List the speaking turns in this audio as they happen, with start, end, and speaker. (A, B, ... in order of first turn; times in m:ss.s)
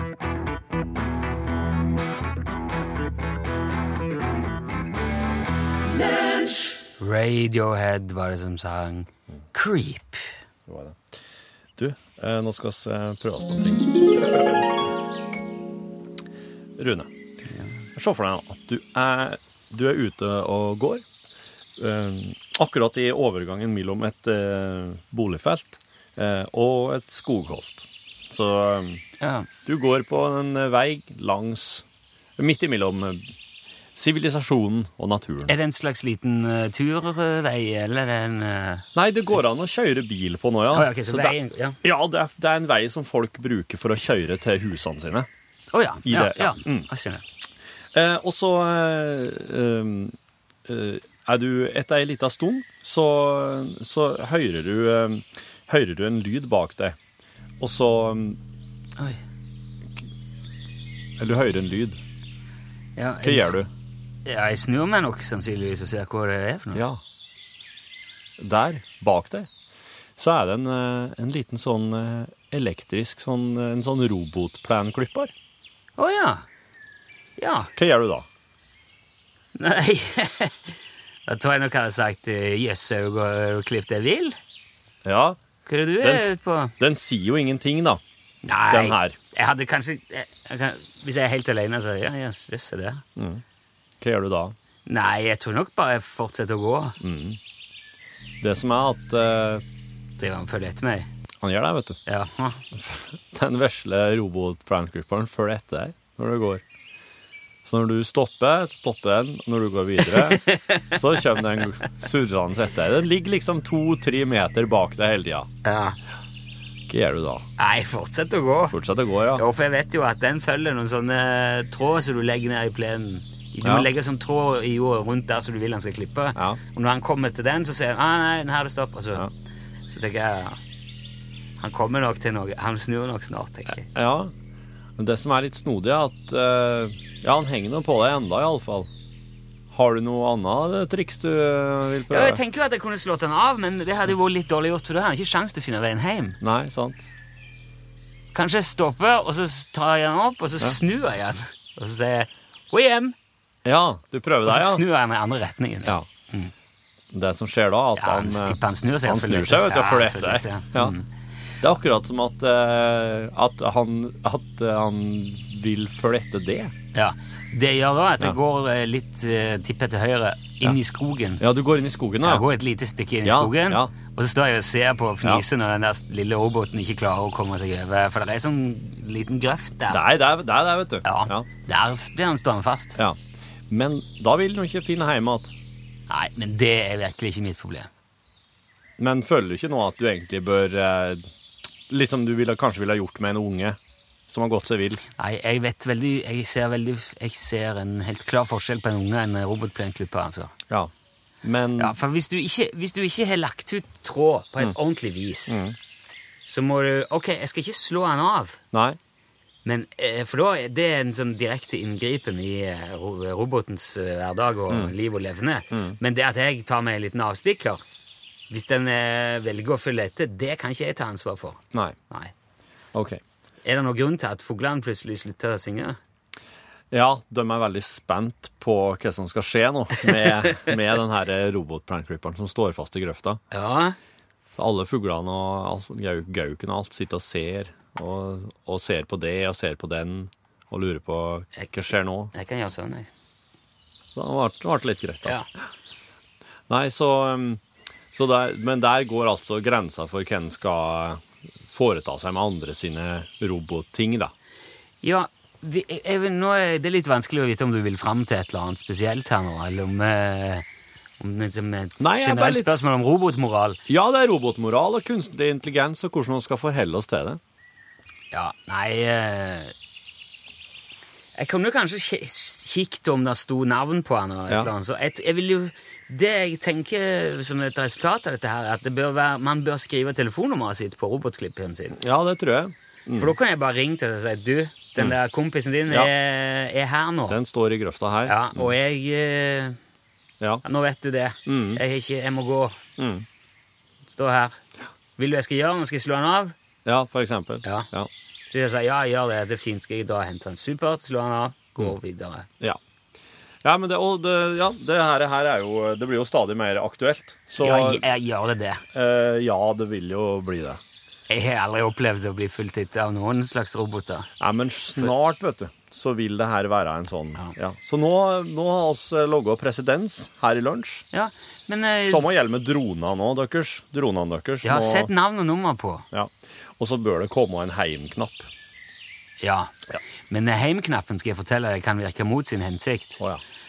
0:07.0-0:10.4 A
0:10.7-0:11.0 B
0:11.8-0:14.6 B
0:16.8-0:17.1 B
0:18.0-0:21.0 B
0:21.8-0:29.0 B
0:29.2-0:29.5 A
0:29.7-0:31.8 B
0:32.4-0:33.3 B
0:34.0-0:35.5 B
0:35.5-0:38.9 A
0:39.0-0:45.3 B
0:40.7-0:41.8 A
0:45.7-0:47.2 A
0:46.0-0:46.9 B
0:47.9-0:57.0 B
0:57.6-0:58.4 B
1:01.2-1:02.0 B
1:03.0-1:03.6 A
1:03.2-1:03.7 B
1:04.2-1:06.8 A
1:06.8-1:07.0 B
1:08.4-1:09.5 B
1:10.2-1:15.3 B
1:16.0-1:16.4 A
1:17.4-1:17.7 A
1:17.8-1:18.3 B
1:19.6-1:24.4 A
1:25.0-1:25.4 B
1:25.7-1:26.7 A
1:26.0-1:28.0 B
1:28.4-1:33.0 A
1:28.7-1:29.2 B
1:33.2-1:33.4 B
1:34.0-1:34.6 B
1:34.9-1:37.0 A
1:37.0-1:37.4 B
1:38.4-1:39.6 B
1:40.2-1:41.1 A
1:41.4-1:42.0 B
1:42.1-1:42.6 A
1:42.7-1:46.6 B
1:47.6-1:55.5 B
1:50.1-1:51.0 A
1:55.6-1:56.0 A
1:56.9-1:57.5 B
1:57.6-1:58.8 A
1:58.7-1:59.4 B
1:59.3-2:09.2 A
2:03.6-2:03.9 B
2:09.9-2:10.6 A
2:11.6-2:13.9 A
2:13.8-2:14.3 B
2:15.0-2:18.9 B
2:19.7-2:22.4 B
2:22.1-2:26.4 A
2:26.4-2:27.1 B
2:28.3-2:33.1 A
2:33.6-2:34.8 B
2:34.5-2:36.5 A
2:37.1-2:40.9 B
2:38.0-2:41.1 A
2:41.6-2:46.7 B
2:46.9-2:51.4 A
2:51.4-2:52.5 B
2:52.2-3:00.0 A
2:53.2-2:53.9 B
2:59.9-3:01.5 B
3:01.0-3:03.0 A
3:03.7-3:05.5 B
3:06.1-3:07.9 A
3:09.0-3:11.3 B
3:11.9-3:15.0 B
3:15.2-3:20.5 A
3:21.4-3:22.0 B
3:21.8-3:25.6 A
3:25.5-3:25.8 B
3:26.5-3:28.6 A
3:28.7-3:29.0 B
3:29.6-3:37.8 A
3:35.7-3:36.0 B
3:38.5-3:42.3 A
3:42.9-3:43.2 B
3:43.6-3:46.0 A
3:46.9-3:53.4 B
3:53.5-3:54.0 A
3:54.6-4:02.3 B
4:02.3-4:03.1 A
4:04.2-4:05.5 B
4:06.7-4:07.6 B
4:08.1-4:14.3 B
4:15.0-4:20.6 A
4:21.2-4:23.8 A
4:22.0-4:22.9 B
4:23.9-4:27.4 B
4:28.3-4:29.7 A
4:31.4-4:42.0 A
4:42.0-4:43.4 B
4:43.2-4:47.4 A
4:47.3-4:48.7 B
4:48.3-4:49.8 A
4:50.6-4:52.8 A
4:51.5-4:51.8 B
4:53.0-4:53.3 B
4:54.1-4:54.6 A
4:55.2-4:56.6 A
4:56.8-4:58.1 B
4:57.6-4:57.9 A
4:58.5-5:02.5 A
5:03.6-5:08.0 B
5:07.6-5:08.8 A
5:08.9-5:10.8 B
5:11.3-5:14.3 A
5:14.4-5:21.0 B
5:21.1-5:22.2 A
5:22.0-5:25.1 B
5:24.6-5:26.1 A
5:26.1-5:28.5 B
5:29.4-5:29.8 A
5:30.3-5:33.2 A